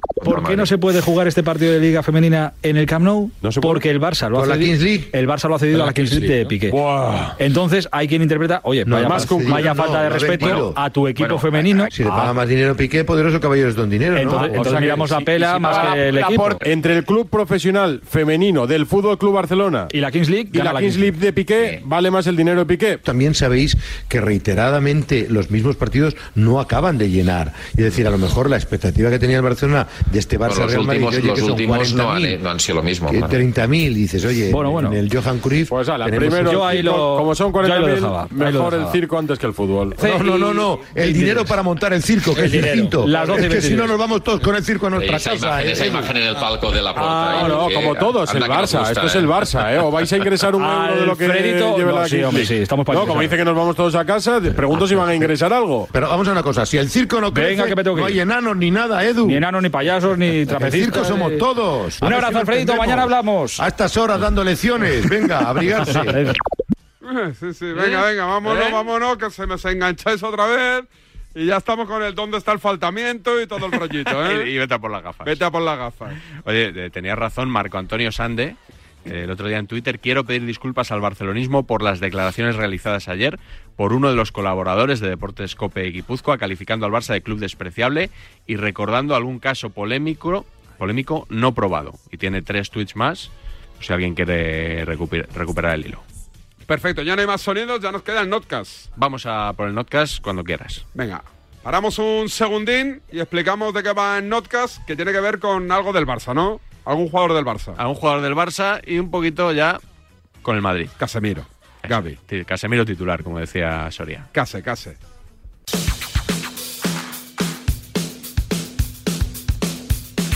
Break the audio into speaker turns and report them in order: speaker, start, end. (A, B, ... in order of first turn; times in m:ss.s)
0:00.2-0:00.7 A
0:00.2-0:06.8 B
0:03.4-0:03.8 C
0:04.3-0:05.1 D
0:05.7-0:07.4 C
0:07.4-0:12.4 B
0:08.8-0:10.8 D
0:09.0-0:09.9 C
0:11.2-0:11.9 A
0:11.9-0:15.0 D
0:14.1-0:16.6 B
0:14.6-0:15.0 C
0:16.6-0:19.9 C
0:19.9-0:21.2 B
0:20.5-0:23.0 C
0:23.0-0:32.4 D
0:30.4-0:33.4 A
0:33.1-0:36.5 D
0:34.5-0:35.0 B
0:35.7-0:40.0 C
0:36.3-0:39.0 B
0:40.0-0:46.2 D
0:40.0-0:41.5 B
0:42.3-0:44.0 B
0:45.0-0:49.3 A
0:46.9-0:47.8 B
0:47.3-0:55.9 C
0:50.6-0:53.4 B
0:55.9-0:59.4 D
0:57.3-0:58.2 B
0:59.2-1:01.4 B
1:00.5-1:06.2 D
1:02.0-1:03.7 B
1:07.0-1:14.5 E
1:07.7-1:08.9 F
1:14.0-1:15.4 F
1:15.2-1:16.2 E
1:16.3-1:36.0 F
1:36.7-1:38.9 E
1:39.0-1:40.8 F
1:40.9-1:47.8 E
1:47.8-1:49.8 F
1:50.4-1:50.9 F
1:51.0-1:52.1 E
1:51.8-1:54.3 F
1:54.3-1:55.0 E